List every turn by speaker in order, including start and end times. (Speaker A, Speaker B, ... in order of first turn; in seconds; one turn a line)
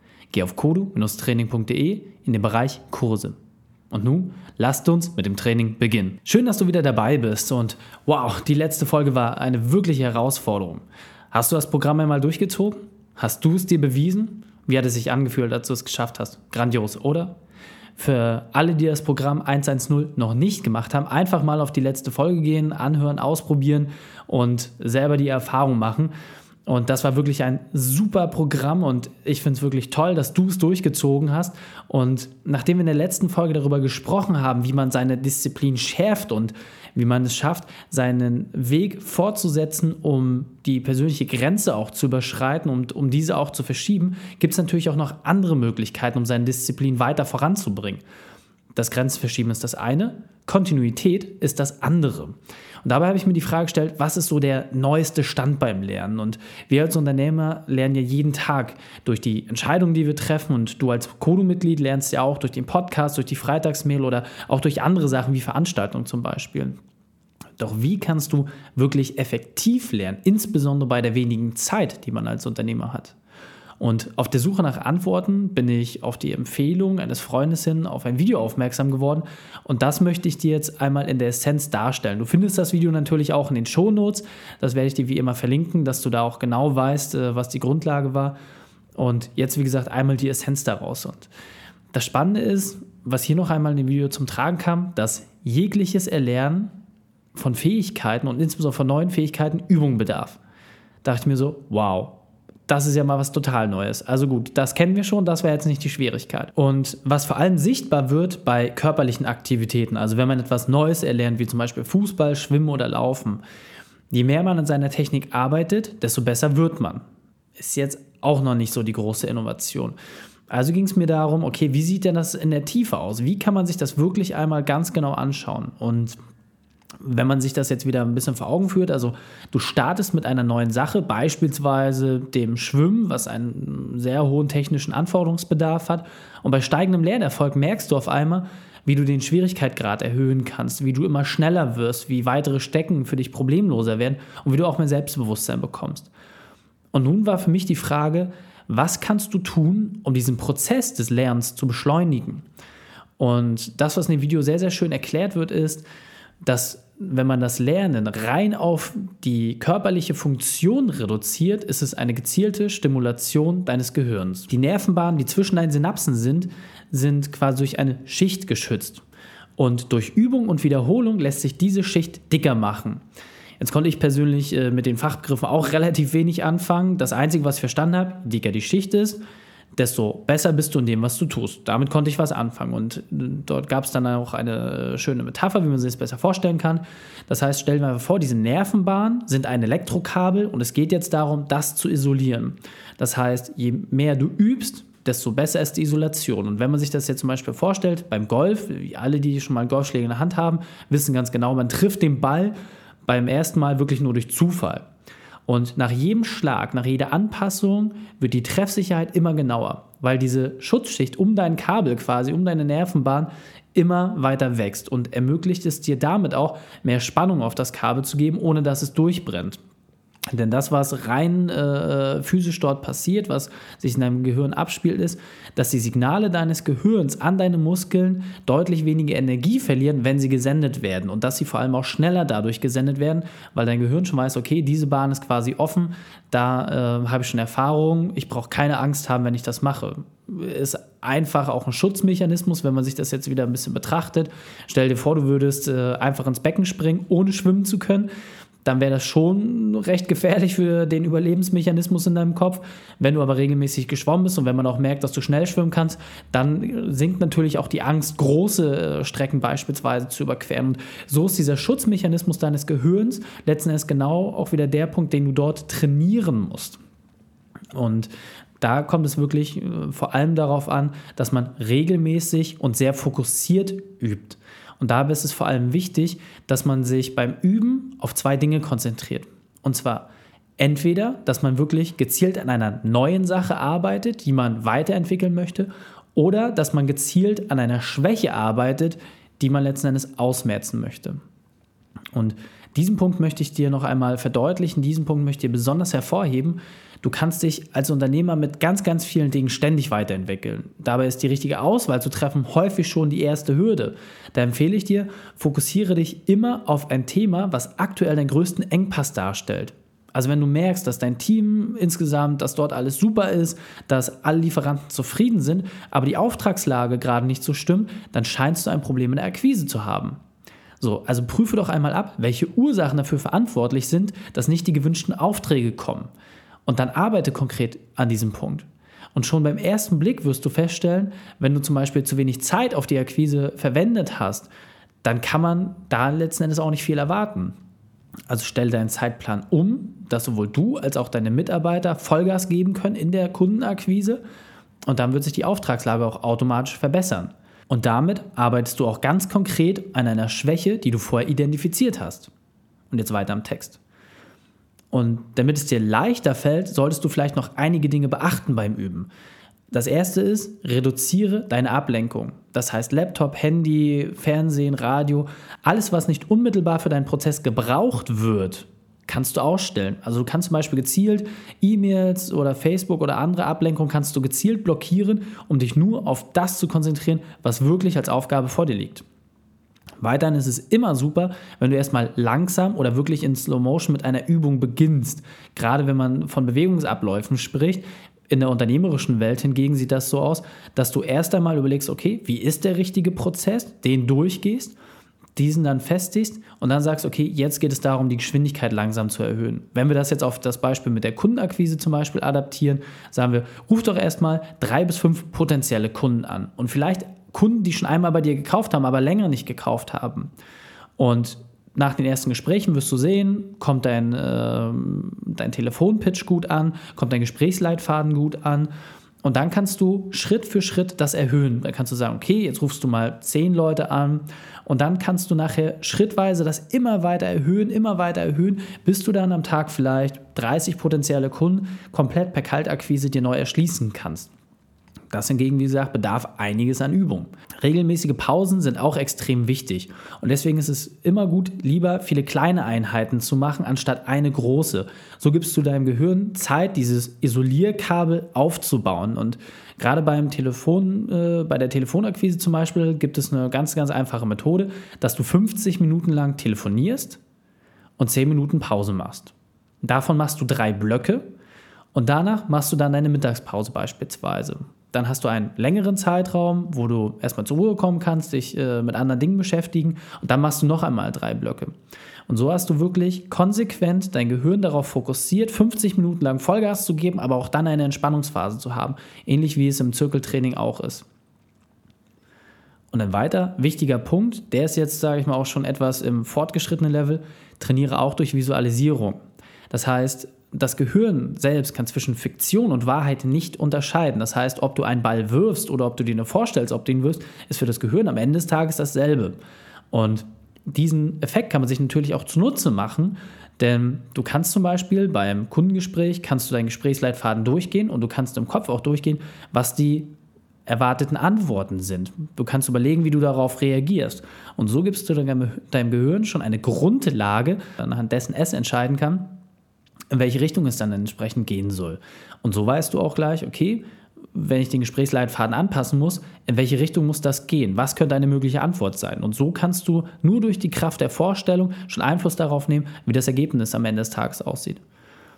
Speaker A: 0.3-3.4
Speaker A: 3.9-17.4
Speaker A: 18.0-26.1
Speaker A: 26.7-48.0
Speaker A: 48.8-66.8
Speaker A: 67.6-73.2
Speaker A: 73.8-88.4
Speaker A: 89.0-91.3
Speaker A: 91.9-96.7
Speaker A: 97.3-100.4
Speaker A: 101.0-113.4
Speaker A: 114.1-117.0
Speaker A: 117.6-120.0
Speaker A: 120.5-126.2
Speaker A: 127.0-146.1
Speaker A: 146.9-152.4
Speaker A: 153.2-155.8
Speaker A: 156.4-169.0
Speaker A: 169.6-173.0
Speaker A: 173.6-179.2
Speaker A: 179.8-202.6
Speaker A: 203.1-204.9
Speaker A: 205.5-219.6
Speaker A: 220.3-248.1
Speaker A: 248.7-266.8
Speaker A: 267.7-291.2
Speaker A: 292.1-320.2
Speaker A: 320.8-326.1
Speaker A: 326.7-334.5
Speaker A: 335.0-337.5
Speaker A: 338.3-344.2
Speaker A: 344.9-352.3
Speaker A: 352.9-353.8
Speaker A: 354.9-359.1
Speaker A: 359.7-379.1
Speaker A: 380.0-394.8
Speaker A: 395.4-410.3
Speaker A: 411.0-418.7
Speaker A: 419.2-434.3
Speaker A: 435.1-457.2
Speaker A: 458.0-461.3
Speaker A: 461.9-471.8
Speaker A: 472.3-481.1
Speaker A: 482.9-499.4
Speaker A: 499.9-510.1
Speaker A: 510.7-519.4
Speaker A: 520.1-534.8